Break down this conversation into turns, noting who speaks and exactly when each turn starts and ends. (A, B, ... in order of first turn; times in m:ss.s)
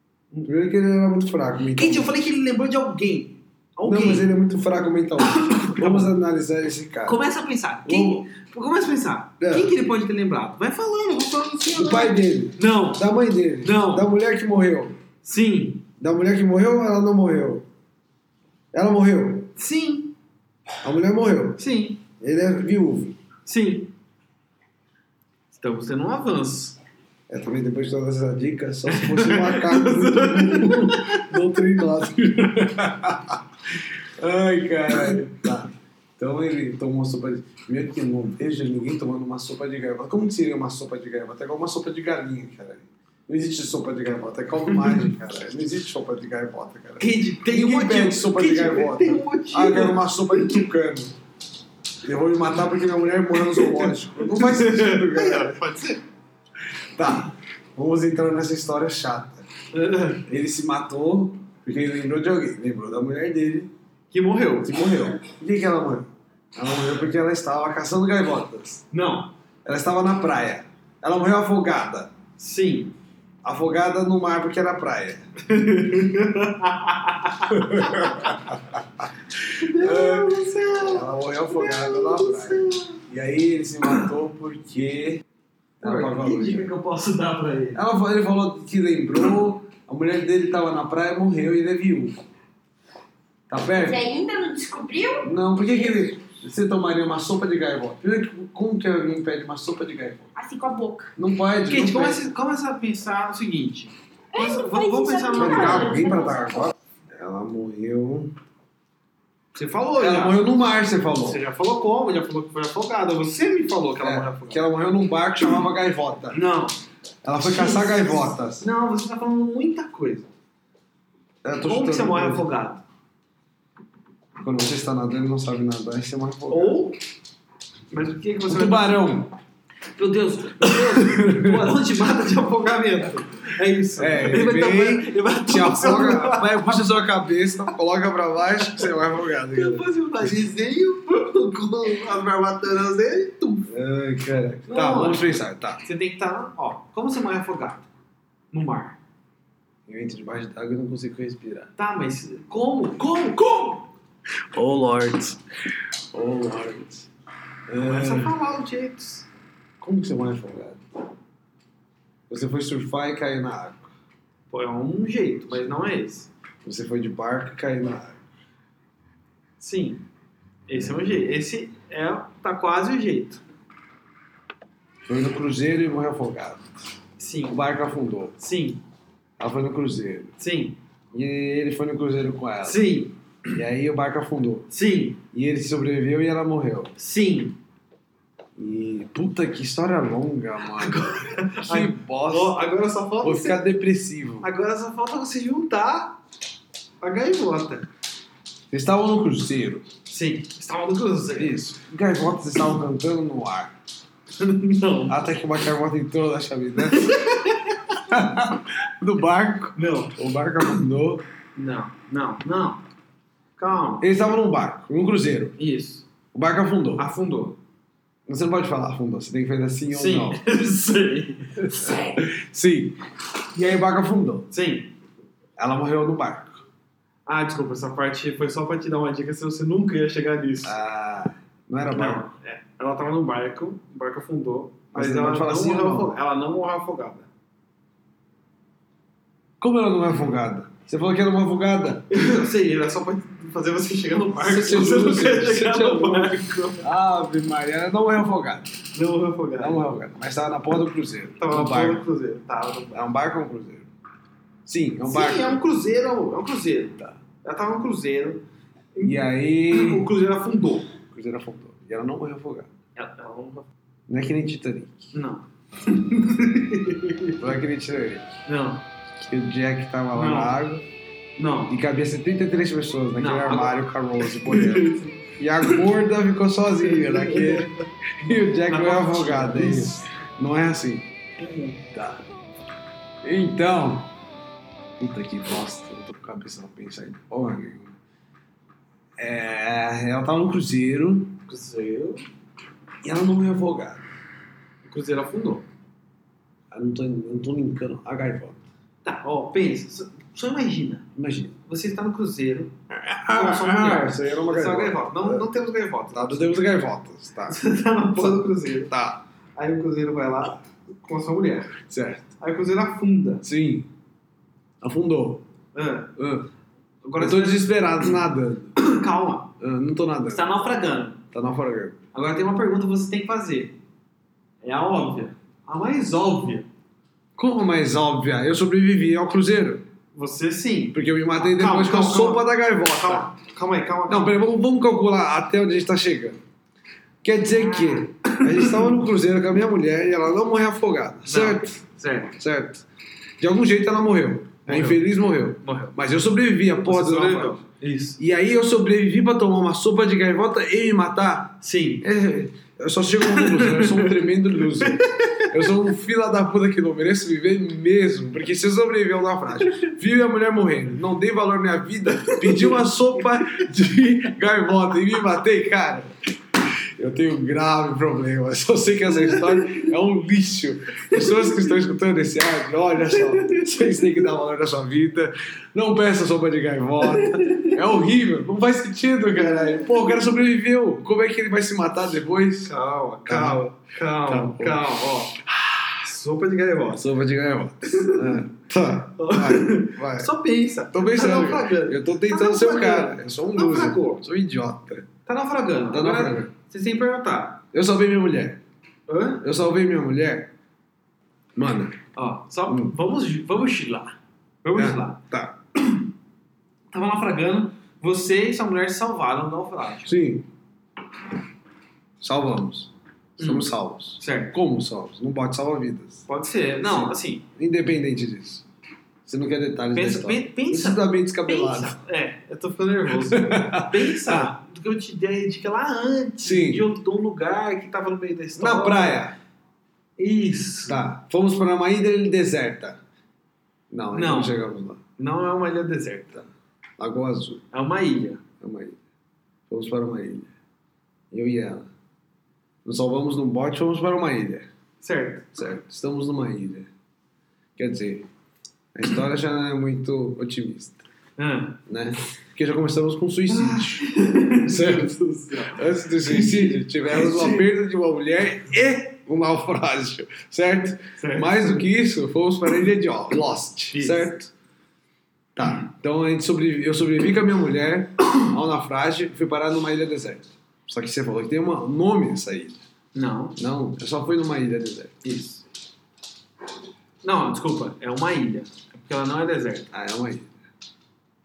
0:00.4-0:02.1 A
0:01.7-0:04.3 B
0:03.8-0:07.2 A
0:05.2-0:06.1 B
0:07.0-0:13.0 B
0:07.8-0:08.2 A
0:09.4-0:09.7 A
0:11.7-0:15.0 A
0:13.6-0:14.1 B
0:15.2-0:15.8 B
0:16.0-0:17.6 A
0:18.7-0:19.5 A
0:19.6-0:20.1 B
0:20.8-0:21.6 A
0:21.6-0:22.0 B
0:22.2-0:23.2 A
0:23.4-0:23.9 B
0:25.5-0:26.8 B
0:27.3-0:33.4 A
0:28.9-0:31.4 B
0:34.0-0:51.1 A
0:44.7-0:45.1 B
0:47.0-0:50.6 B
0:52.0-0:55.6 A
0:53.3-0:56.0 B
0:56.9-0:59.4 A
0:59.7-1:00.2 B
1:00.3-1:03.7 A
1:04.1-1:04.7 B
1:04.6-1:08.8 A
1:08.9-1:09.3 B
1:09.6-1:12.1 A
1:12.4-1:12.9 B
1:13.4-1:15.2 A
1:15.4-1:18.3 B
1:17.5-1:19.1 A
1:19.5-1:23.0 B
1:19.6-1:25.2 A
1:25.8-1:26.7 A
1:25.8-1:27.8 B
1:27.7-1:32.2 A
1:33.5-1:34.0 A
1:33.7-1:35.3 C
1:35.2-1:40.3 A
1:40.4-1:41.1 C
1:41.2-1:42.2 A
1:41.7-1:46.0 B
1:44.3-1:46.7 C
1:45.3-1:48.3 A
1:49.5-1:50.4 B
1:50.0-1:51.4 A
1:51.2-1:54.6 B
1:54.0-1:56.4 A
1:56.3-1:56.7 B
1:57.2-1:58.6 A
1:57.4-2:00.3 B
2:01.4-2:02.4 A
2:01.6-2:02.8 B
2:04.4-2:06.8 A
2:06.5-2:07.0 B
2:07.9-2:09.0 B
2:08.5-2:09.3 A
2:10.0-2:17.0 B
2:10.6-2:11.8 A
2:14.0-2:20.4 A
2:19.5-2:23.7 B
2:23.7-2:25.8 A
2:24.7-2:25.3 B
2:25.8-2:27.9 B
2:28.5-2:29.0 B
2:29.9-2:31.7 A
2:31.8-2:33.8 B
2:34.5-2:35.4 A
2:36.1-2:37.1 A
2:37.7-2:38.3 A
2:37.8-2:39.3 B
2:39.8-2:40.8 A
2:42.3-2:43.9 A
2:44.5-2:46.3 B
2:46.6-2:48.2 A
2:49.6-2:50.0 B
2:50.7-2:53.4 B
2:55.0-2:56.7 A
2:57.2-2:57.6 B
2:57.5-2:58.3 A
2:58.4-2:58.8 B
2:59.4-3:00.3 A
3:00.4-3:00.8 B
3:01.1-3:02.8 A
3:02.6-3:03.2 B
3:03.5-3:04.7 A
3:04.7-3:05.2 B
3:05.3-3:06.9 A
3:07.0-3:07.6 B
3:08.6-3:12.6 A
3:10.7-3:13.6 B
3:13.2-3:14.5 A
3:14.4-3:16.2 B
3:17.0-3:17.9 B
3:18.7-3:19.9 A
3:20.1-3:21.6 B
3:21.3-3:23.7 A
3:24.4-3:25.2 B
3:25.1-3:27.2 A
3:26.8-3:27.9 B
3:28.0-3:31.2 A
3:29.8-3:30.1 B
3:31.6-3:32.8 B
3:33.6-3:34.1 B
3:34.0-3:35.5 A
3:35.6-3:36.0 B
3:36.3-3:37.0 A
3:37.0-3:37.6 B
3:38.3-3:40.4 A
3:39.9-3:42.2 B
3:41.6-3:43.0 A
3:43.5-3:44.5 A
3:44.5-3:44.9 B
3:45.6-3:46.6 A
3:47.2-3:50.8 B
3:50.6-3:52.3 A
3:51.9-3:57.3 B
3:54.9-3:56.2 A
3:59.6-4:02.1 A
4:02.1-4:06.9 B
4:04.4-4:08.8 A
4:08.9-4:09.9 B
4:09.6-4:12.0 A
4:11.4-4:13.0 B
4:12.9-4:13.9 A
4:14.6-4:15.6 A
4:15.0-4:18.4 B
4:18.9-4:20.9 B
4:19.0-4:20.1 A
4:21.0-4:22.7 A
4:23.0-4:23.7 B
4:24.1-4:25.1 A
4:25.1-4:27.4 B
4:27.4-4:28.3 A
4:28.4-4:28.8 B
4:29.2-4:30.8 A
4:30.1-4:30.6 B
4:31.4-4:31.8 B
4:31.7-4:41.1 A
4:33.2-4:35.8 B
4:36.9-4:37.7 B
4:38.7-4:40.0 B
4:41.4-4:41.8 B
4:41.9-4:42.2 A
4:43.2-4:44.1 A
4:45.0-4:48.0 A
4:49.2-4:51.4 A
4:51.5-4:52.2 B
4:53.0-4:54.0 A
4:54.8-4:55.6 B
4:56.7-4:58.6 A
4:59.0-5:01.1 B
5:01.1-5:01.5 A
5:01.6-5:02.7 B
5:02.9-5:05.5 A
5:03.3-5:06.6 B
5:06.1-5:07.6 A
5:07.5-5:08.9 B
5:08.2-5:09.2 A
5:09.6-5:11.8 B
5:11.8-5:12.2 A
5:12.4-5:13.4 B
5:13.4-5:13.9 A
5:14.8-5:15.4 A
5:15.7-5:16.1 B
5:16.2-5:16.5 A
5:17.0-5:18.1 B
5:17.2-5:18.8 A
5:18.8-5:19.5 B
5:19.6-5:20.4 A
5:20.3-5:21.2 B
5:21.3-5:22.0 A
5:22.1-5:23.8 B
5:24.6-5:26.7 B
5:27.4-5:29.8 A
5:30.1-5:34.4 B
5:30.9-5:33.3 A
5:34.1-5:36.4 A
5:37.2-5:41.7 A
5:37.5-5:38.9 B
5:41.2-5:42.4 B
5:42.4-5:42.8 A
5:43.4-5:47.6 A
5:44.6-5:45.0 B
5:45.6-5:46.0 B
5:46.8-5:48.2 B
5:48.2-6:06.1 A
5:51.6-5:52.0 B
5:53.2-5:54.2 B
5:54.8-5:55.7 B
6:02.2-6:02.8 B
6:07.0-6:22.7 A
6:09.2-6:09.8 B
6:11.1-6:11.5 B
6:13.3-6:13.7 B
6:17.0-6:17.8 B
6:19.4-6:20.1 B
6:22.6-6:25.4 B
6:23.2-6:23.6 A
6:24.2-6:24.8 A
6:25.5-6:25.9 A
6:26.0-6:27.0 B
6:26.9-6:30.3 A
6:27.8-6:28.3 B
6:29.2-6:34.2 B
6:30.9-6:35.1 A
6:35.2-6:37.6 B
6:35.9-6:36.5 A
6:37.7-6:38.6 A
6:39.1-6:39.4 B
6:39.4-6:40.5 A
6:41.5-6:42.0 A
6:42.1-6:45.2 B
6:42.7-6:42.9 A
6:44.8-6:45.6 A
6:46.9-6:50.2 B
6:50.0-6:50.4 A
6:52.2-6:56.2 A
6:53.4-6:54.5 B
6:56.3-6:57.4 B
6:56.8-6:58.6 A
6:59.2-7:02.0 A
6:59.9-7:09.2 B
7:03.2-7:04.5 A
7:06.4-7:06.8 A
7:08.6-7:09.4 A
7:10.2-7:11.0 B
7:10.9-7:13.0 A
7:13.9-7:15.0 A
7:14.1-7:14.6 B
7:15.2-7:16.4 B
7:17.0-7:17.6 A
7:17.7-7:18.4 B
7:18.6-7:19.0 A
7:19.7-7:20.5 A
7:21.3-7:21.9 A
7:22.8-7:24.7 A
7:25.0-7:25.4 B
7:25.5-7:26.9 A
7:27.8-7:28.3 A
7:28.9-7:31.0 A
7:31.4-7:31.8 B
7:31.9-7:34.1 A
7:33.5-7:37.7 B
7:34.6-7:44.5 A
7:41.2-7:41.9 B
7:43.9-7:44.3 B
7:45.6-7:52.8 A
7:53.1-7:53.6 B
7:53.6-7:55.6 A
7:57.2-7:59.9 B
7:59.9-8:00.5 A